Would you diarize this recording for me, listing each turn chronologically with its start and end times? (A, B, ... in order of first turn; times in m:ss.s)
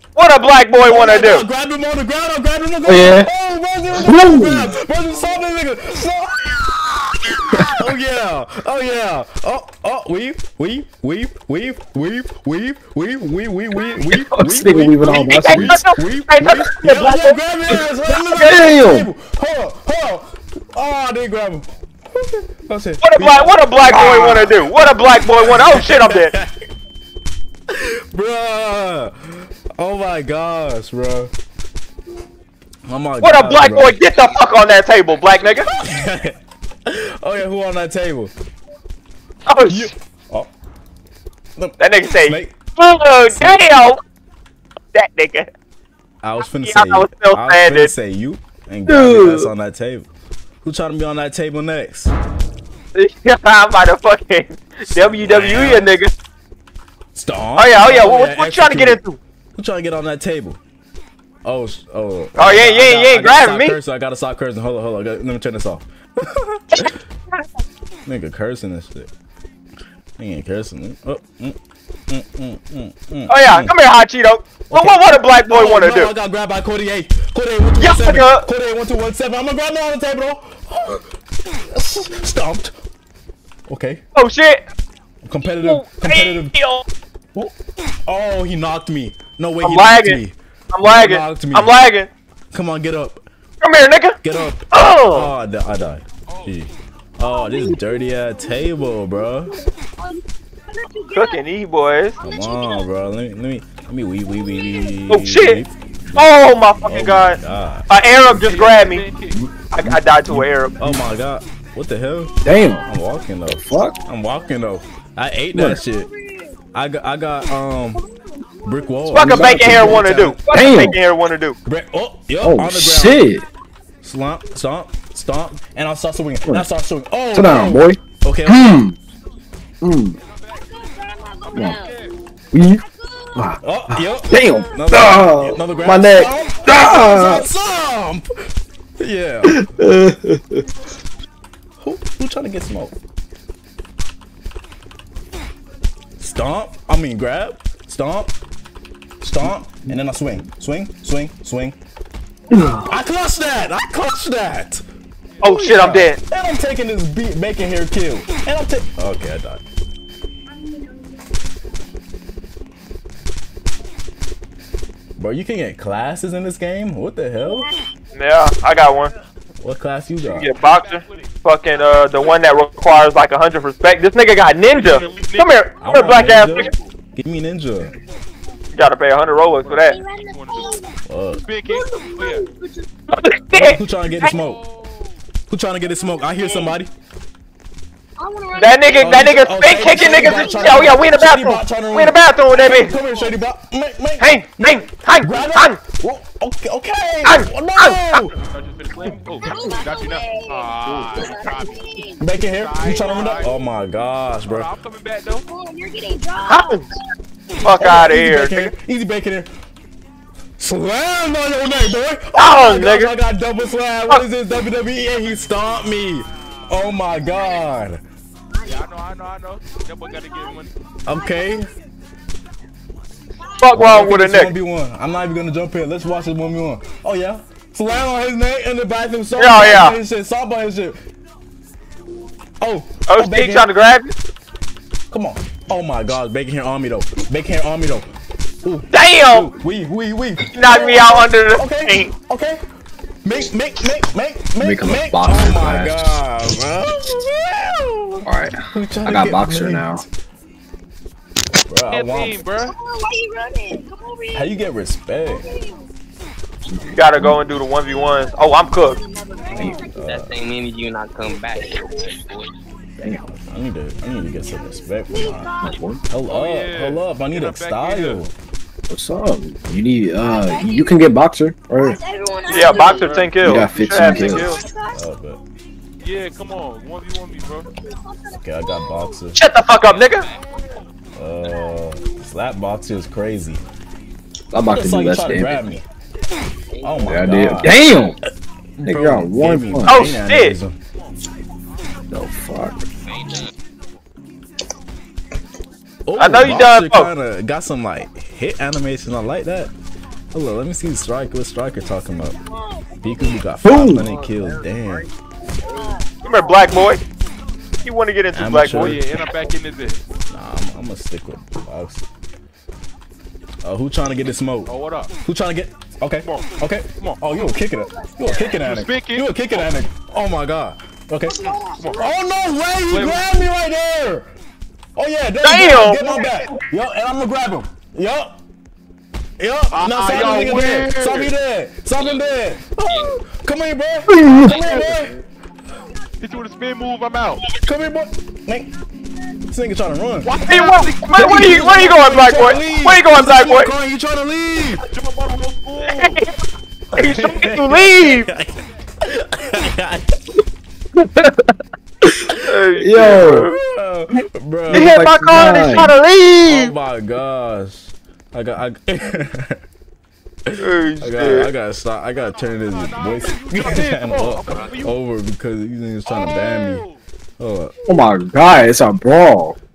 0:00.2-0:01.4 A
0:00.9-0:06.9 B
0:02.8-0:03.3 C
0:03.9-0:04.7 C
0:07.5-0:24.9 B
0:14.1-0:15.8 C
0:15.3-0:17.4 A
0:18.1-0:19.1 C
0:18.3-0:18.6 A
0:23.0-0:26.3 A
0:25.4-0:26.7 B
0:27.7-0:31.3 B
0:32.9-0:34.0 B
0:33.2-0:35.7 A
0:35.6-0:38.3 B
0:39.5-0:39.9 A
0:39.7-0:40.5 B
0:41.6-0:42.6 B
0:41.8-0:44.0 A
0:43.3-0:43.6 B
0:44.9-0:45.5 A
0:46.2-0:50.1 B
0:46.6-0:47.9 A
0:48.9-0:49.5 A
0:50.6-0:52.1 B
0:53.0-0:56.1 A
0:55.0-0:55.9 B
0:57.2-0:59.0 B
0:57.6-0:59.2 A
0:59.6-1:00.6 B
1:01.4-1:07.0 B
1:02.4-1:03.8 A
1:08.0-1:09.1 B
1:10.2-1:11.6 B
1:12.1-1:13.7 B
1:13.3-1:16.1 A
1:14.7-1:22.7 B
1:17.8-1:18.5 A
1:23.7-1:24.0 B
1:24.2-1:24.7 A
1:25.2-1:26.5 B
1:25.5-1:26.8 A
1:28.1-1:31.7 B
1:29.6-1:30.2 A
1:30.7-1:32.1 A
1:32.5-1:33.2 B
1:33.6-1:34.2 A
1:34.2-1:39.6 B
1:34.7-1:35.3 A
1:37.3-1:38.0 D
1:39.6-1:41.4 D
1:41.1-1:42.2 A
1:42.2-1:46.3 B
1:42.2-1:42.9 D
1:44.5-1:44.9 D
1:45.1-1:45.6 A
1:46.2-1:47.4 A
1:46.8-1:47.9 B
1:47.9-1:49.0 A
1:48.4-1:49.4 E
1:49.3-1:50.4 C
1:49.7-1:51.0 A
1:50.8-1:56.1 B
1:52.4-1:52.9 C
1:53.6-1:54.0 C
1:55.5-1:55.8 C
1:56.7-1:58.0 B
1:58.6-2:00.4 B
1:59.1-2:01.6 A
1:59.2-2:01.0 C
2:01.7-2:03.3 B
2:02.4-2:03.4 C
2:04.0-2:08.8 B
2:07.3-2:09.0 C
2:09.8-2:10.2 C
2:10.2-2:10.7 E
2:10.7-2:12.0 D
2:11.5-2:11.8 C
2:11.7-2:12.1 E
2:12.5-2:12.8 C
2:13.0-2:13.3 D
2:13.3-2:17.5 C
2:13.6-2:18.3 B
2:19.0-2:19.6 B
2:19.4-2:20.6 C
2:21.8-2:23.0 B
2:26.2-2:28.3 B
2:29.2-2:31.8 B
2:32.5-2:32.9 C
2:32.9-2:34.8 B
2:35.4-2:36.2 A
2:35.4-2:39.6 B
2:45.2-2:47.7 B
2:48.2-2:49.1 A
2:49.6-2:50.5 B
2:50.2-2:56.7 A
2:50.6-2:51.3 E
2:54.8-2:55.5 E
2:55.8-2:57.9 B
2:58.8-3:00.0 A
2:59.6-3:00.8 E
2:59.9-3:01.0 D
3:01.1-3:01.4 B
3:01.4-3:02.5 E
3:01.7-3:02.9 D
3:03.1-3:04.3 A
3:03.5-3:04.6 B
3:04.3-3:05.0 E
3:05.5-3:06.9 B
3:06.3-3:06.8 D
3:08.2-3:09.2 D
3:08.5-3:12.9 A
3:09.0-3:18.3 B
3:09.9-3:11.0 D
3:12.8-3:13.4 D
3:14.2-3:15.8 A
3:17.2-3:18.2 A
3:18.4-3:23.5 E
3:19.5-3:22.2 D
3:22.2-3:24.7 B
3:24.5-3:25.4 E
3:25.5-3:26.8 D
3:26.5-3:26.9 A
3:27.6-3:28.7 A
3:27.7-3:29.5 B
3:30.6-3:38.0 B
3:32.4-3:33.1 A
3:38.6-3:40.7 E
3:41.1-3:41.7 B
3:43.6-3:44.5 A
3:43.7-3:51.0 B
3:49.4-3:50.0 A
3:52.6-3:53.7 B
3:53.1-3:54.1 A
3:55.1-3:58.1 B
3:58.6-4:02.6 B
3:58.9-3:59.5 A
4:00.5-4:02.1 A
4:03.2-4:10.0 B
4:04.6-4:06.0 C
4:08.2-4:10.0 C
4:11.7-4:12.4 B
4:11.9-4:12.8 E
4:12.7-4:14.5 D
4:14.3-4:15.5 B
4:15.3-4:15.9 D
4:16.7-4:17.4 C
4:16.9-4:19.0 A
4:18.8-4:20.0 D
4:19.5-4:20.4 B
4:19.6-4:19.8 C
4:20.0-4:22.6 F
4:23.1-4:25.5 B
4:25.1-4:25.7 D
4:25.6-4:26.0 C
4:26.1-4:28.3 B
4:26.3-4:28.2 E
4:28.9-4:32.0 C
4:30.3-4:31.0 D
4:31.8-4:33.0 D
4:32.5-4:34.6 A
4:32.5-4:33.6 E
4:33.4-4:34.6 C
4:34.0-4:35.0 D
4:34.9-4:35.4 B
4:36.0-4:37.7 E
4:37.8-4:39.0 D
4:38.3-4:39.4 B
4:39.4-4:40.3 A
4:39.8-4:40.6 E
4:41.2-4:43.6 B
4:44.5-4:45.7 C
4:44.7-4:45.8 B
4:46.7-4:47.3 F
4:46.8-4:47.8 B
4:47.0-4:48.2 C
4:48.8-4:50.8 B
4:48.8-4:50.1 C
4:49.9-4:50.6 A
4:52.1-4:52.8 C
4:56.1-4:59.7 B
4:56.2-4:57.1 A
5:00.3-5:02.4 B
5:02.5-5:03.3 D
5:03.0-5:05.1 B
5:03.6-5:04.1 C
5:05.8-5:06.6 D
5:06.2-5:07.0 A
5:07.8-5:09.0 A
5:08.3-5:09.0 B
5:08.6-5:10.0 E
5:10.3-5:12.1 B
5:13.6-5:14.7 B
5:14.7-5:15.1 E
5:15.2-5:24.3 B
5:16.2-5:17.5 E
5:18.0-5:18.5 D
5:18.5-5:19.3 E
5:21.4-5:21.7 D
5:21.8-5:22.0 E
5:22.9-5:23.2 E
5:25.0-5:28.3 B
5:25.4-5:26.5 A
5:29.4-5:35.1 B
5:29.7-5:31.3 E
5:32.0-5:33.2 F
5:34.2-5:34.5 C
5:34.4-5:35.1 F
5:34.5-5:34.9 E
5:36.2-5:37.4 E
5:37.5-5:38.7 B
5:39.4-5:40.5 B
5:40.2-5:41.6 E
5:40.5-5:43.7 A
5:41.1-5:44.8 B
5:44.9-5:46.2 E
5:45.8-5:46.3 A
5:46.9-5:50.1 B
5:47.0-5:48.3 A
5:52.4-5:53.5 A
5:52.8-5:53.5 C
5:53.0-5:55.0 B
5:54.7-5:55.9 C
5:54.7-5:56.7 A
5:56.4-5:59.6 B
6:00.5-6:06.8 B
6:00.6-6:01.5 A
6:02.4-6:04.9 E
6:04.5-6:04.8 F
6:06.1-6:07.0 E
6:07.4-6:07.7 B
6:07.9-6:09.6 C